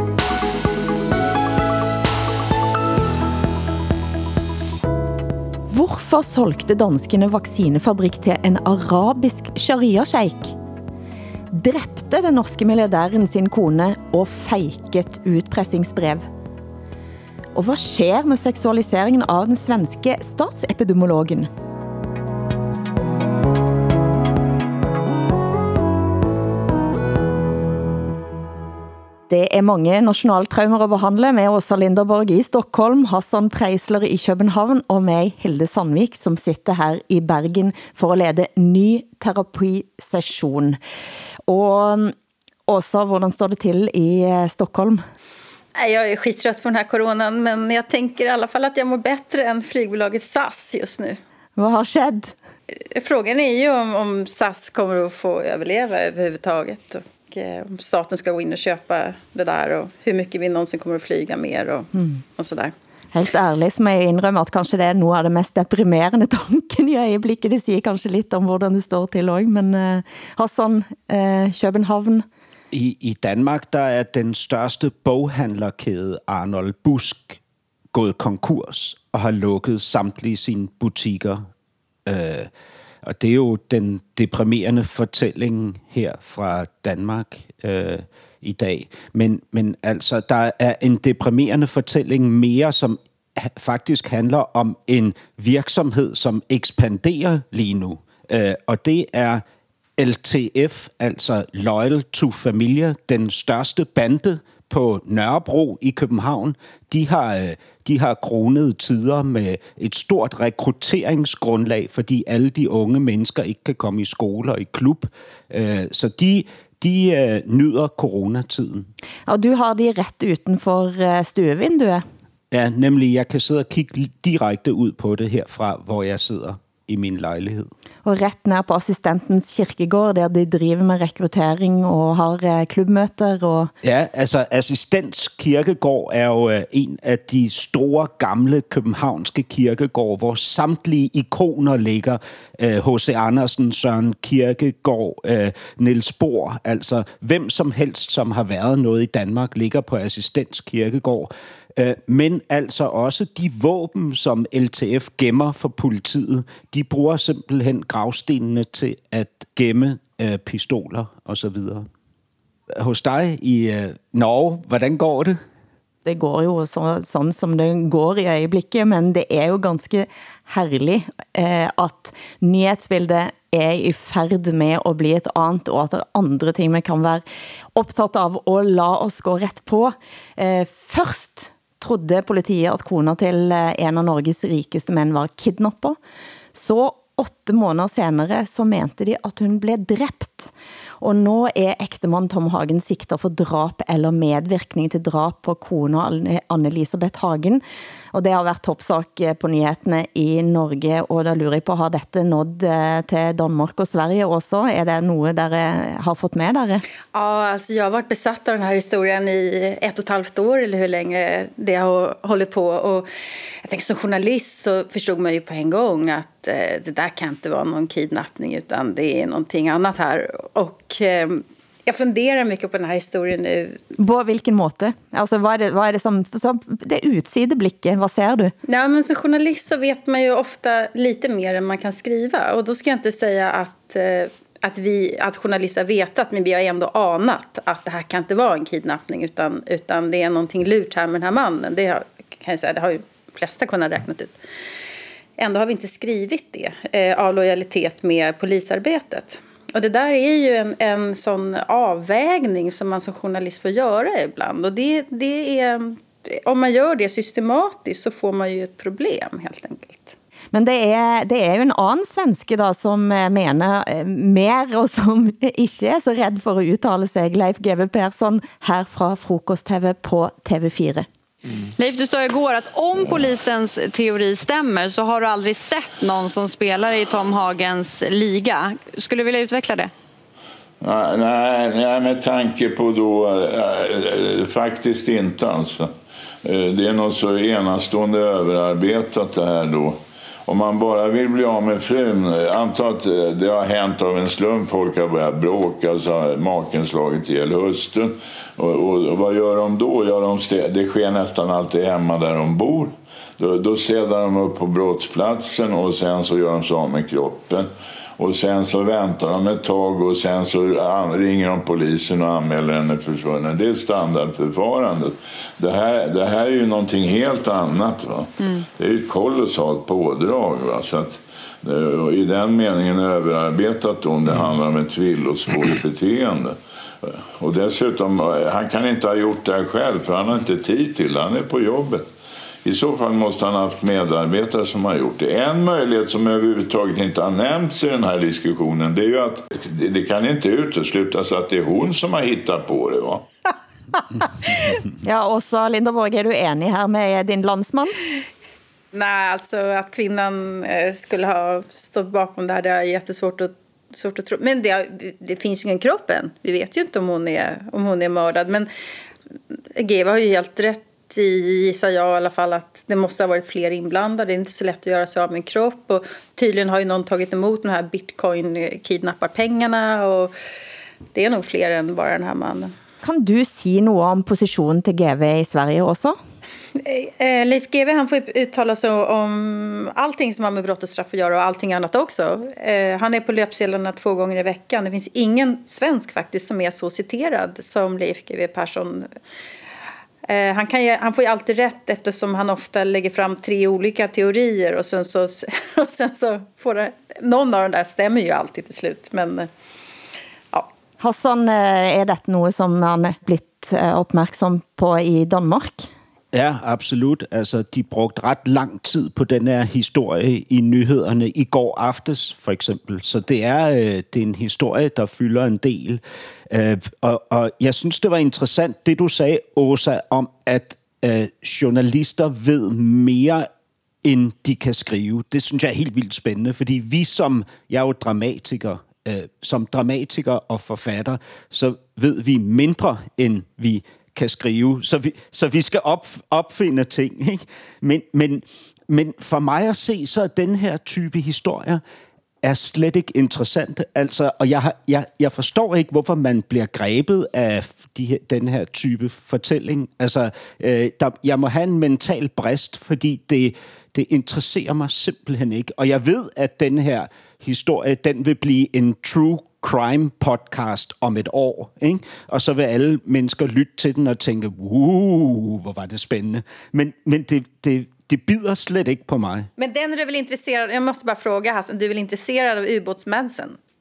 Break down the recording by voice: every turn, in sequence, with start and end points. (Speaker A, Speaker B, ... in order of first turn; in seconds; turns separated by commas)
Speaker A: 5.7-10.5, Speaker A: 11.5-16.3, Speaker A: 17.5-21.5, Speaker A: 29.3-40.8, Speaker A: 41.5-42.1, Speaker A: 42.7-45.0, Speaker B: 45.7-51.2, Speaker A: 51.6-52.4, Speaker B: 52.7-62.7, Speaker A: 61.9-62.2, Speaker A: 63.1-72.2, Speaker C: 72.7-77.4, Speaker C: 77.9-81.5, Speaker C: 82.0-82.5, Speaker C: 83.0-99.4, Speaker C: 100.0-118.9, Speaker A: 119.3-122.0, Speaker C: 122.5-127.7, Speaker A: 128.0-133.7, Speaker C: 133.8-161.9, Speaker C: 162.7-165.4, Speaker A: 166.1-177.2, Speaker A: 177.8-186.0, Speaker A: 186.5-197.6, Speaker A: 198.1-206.8, Speaker B: 207.1-213.1, Speaker B: 213.6-223.8, Speaker A: 224.0-228.5, Speaker B: 228.7-244.3, Speaker B: 245.4-260.1, Speaker A: 260.5-271.1, Speaker D: 271.8-279.9, Speaker E: 280.8-285.9, Speaker E: 286.4-332.1, Speaker E: 332.6-343.2, Speaker A: 345.0-347.9, Speaker B: 348.9-358.7, Speaker B: 359.8-370.3, Speaker B: 371.1-372.7, Speaker A: 373.0-376.2, Speaker B: 376.8-389.1, Speaker B: 390.3-399.5, Speaker A: 401.0-405.9, Speaker C: 406.3-423.5, Speaker C: 424.0-441.8, Speaker C: 442.4-469.5, Speaker B: 469.6-473.6